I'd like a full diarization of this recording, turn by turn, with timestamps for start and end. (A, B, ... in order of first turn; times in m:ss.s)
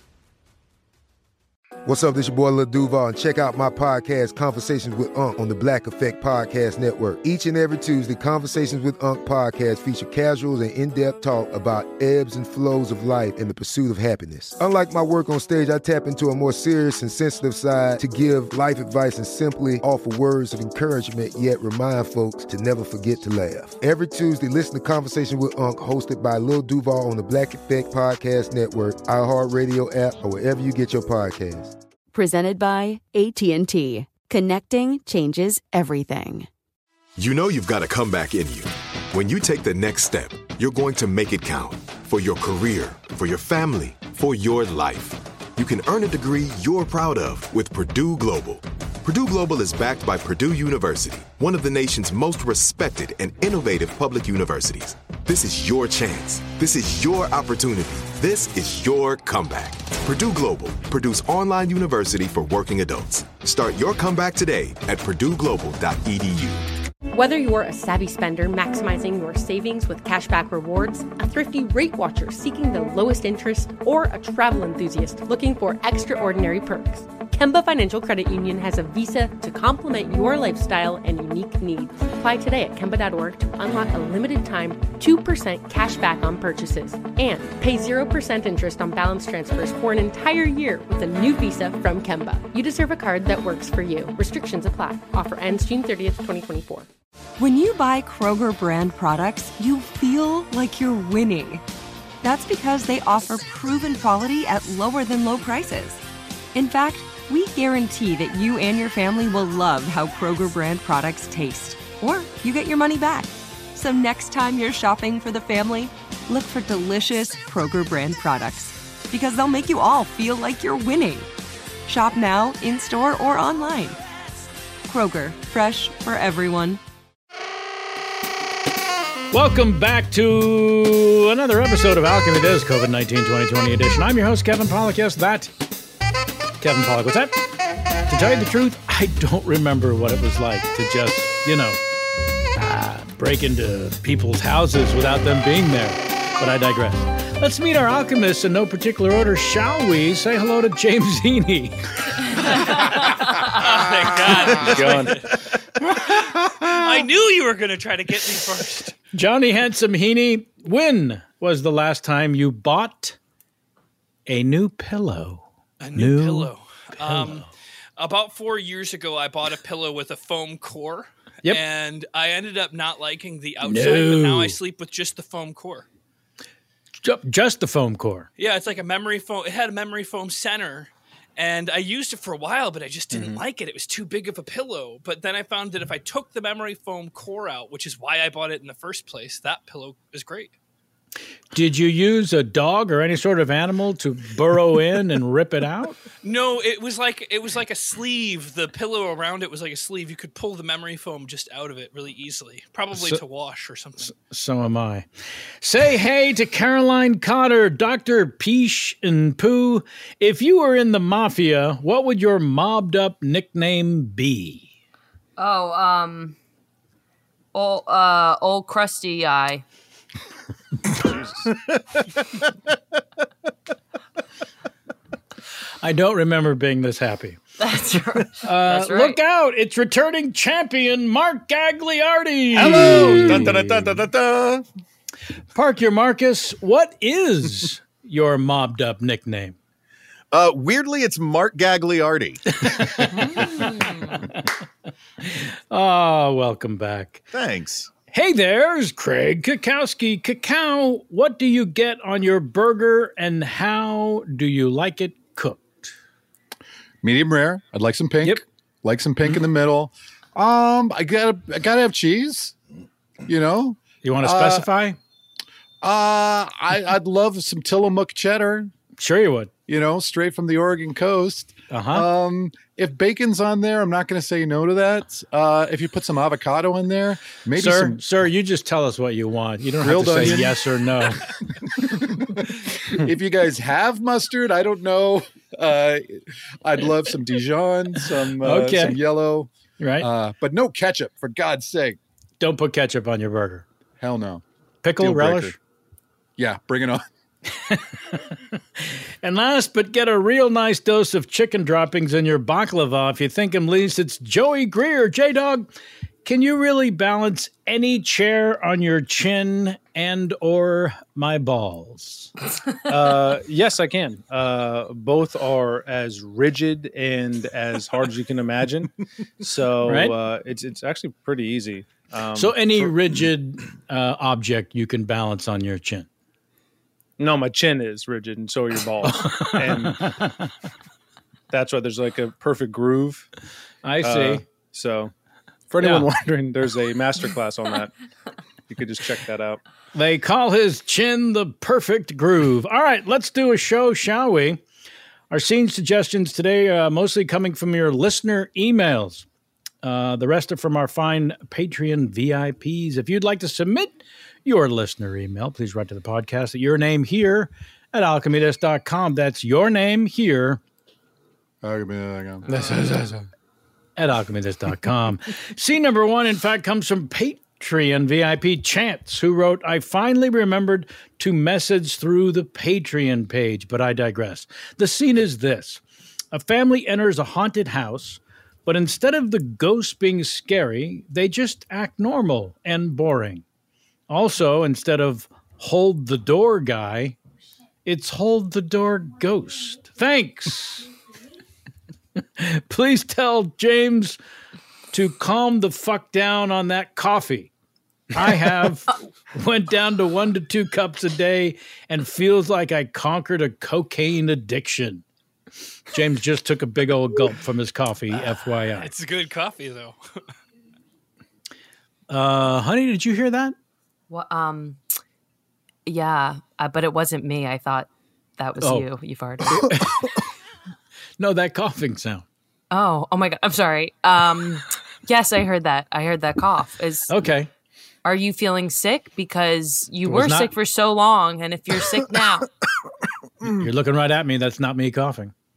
0:01.8-0:31.7 A
0:32.1-0:36.5 B
0:37.2-1:06.7 C
1:07.1-1:36.9 D
1:37.4-1:41.6 E
1:42.2-1:46.0 E
1:46.5-2:01.3 E
2:01.8-2:04.0 E
2:04.8-2:06.8 E
2:09.3-2:15.5 F
2:16.6-2:17.4 F
2:18.1-2:21.8 F
2:22.6-2:31.8 F
2:32.6-2:35.2 G
2:34.6-2:35.2 H
2:36.6-2:38.9 G
2:39.1-2:43.2 F
2:44.3-2:46.5 F
2:45.8-2:47.4 G
2:47.0-2:47.4 F
2:48.0-2:55.9 G
2:53.6-2:54.6 F
2:57.0-2:58.3 F
2:58.4-3:10.5 G
3:03.1-3:03.4 H
3:11.5-3:16.0 F
3:16.2-3:24.1 G
3:22.9-3:23.2 F
3:24.0-3:25.1 F
3:25.6-3:34.7 F
3:35.4-3:36.4 I
3:37.5-3:39.6 I
3:45.8-3:47.4 F
3:47.6-3:49.2 I
3:48.4-3:53.9 F
3:52.5-3:54.6 J
3:52.6-3:53.4 K
3:55.5-3:59.6 F
4:00.3-4:02.4 J
4:02.6-4:04.3 F
4:03.1-4:04.2 I
4:05.2-4:07.3 F
4:07.3-4:07.9 J
4:08.1-4:15.9 F
4:17.0-4:22.5 K
4:23.2-4:24.7 K
4:24.0-4:25.0 F
4:25.8-4:28.7 K
4:29.0-4:29.5 F
4:29.7-4:38.0 K
4:31.7-4:32.1 F
4:37.5-4:41.2 F
4:39.8-4:40.6 K
4:41.9-4:52.0 K
4:48.0-4:49.0 F
4:49.8-4:50.1 F
4:52.4-4:53.6 F
4:54.0-4:54.4 K
4:54.8-4:55.5 F
4:55.0-4:55.5 K
4:56.4-4:57.0 K
4:57.6-4:57.8 F
4:58.8-5:05.7 F
5:06.2-5:12.3 F
5:12.9-5:23.0 H
5:19.8-5:20.2 F
5:22.3-5:26.1 F
5:27.2-5:30.0 H
5:29.0-5:30.5 F
5:31.5-5:33.2 H
5:33.8-5:34.4 F
5:34.0-5:35.1 H
5:35.7-5:37.9 H
5:35.8-5:36.1 F
5:38.7-5:39.6 H
5:39.9-5:44.6 F
5:45.3-5:49.2 F
5:49.8-6:00.6 F
6:01.6-6:02.5 K
6:02.5-6:03.0 F
6:02.5-6:03.1 H
6:04.0-6:15.8 F
6:16.3-6:23.4 F
6:24.1-6:27.2 F
6:27.8-6:30.9 F
6:32.4-6:34.2 F
6:34.9-6:37.5 F
6:38.1-6:45.0 F
6:45.9-6:48.9 F
6:48.1-6:50.0 G
6:52.1-6:53.5 F
6:54.1-6:54.8 I
6:55.8-6:59.6 I
6:58.6-6:58.9 F
6:59.4-7:00.2 F
7:01.2-7:02.2 F
7:02.7-7:07.1 I
7:07.1-7:07.5 F
7:08.0-7:12.5 I
7:10.0-7:10.5 F
7:13.4-7:15.3 F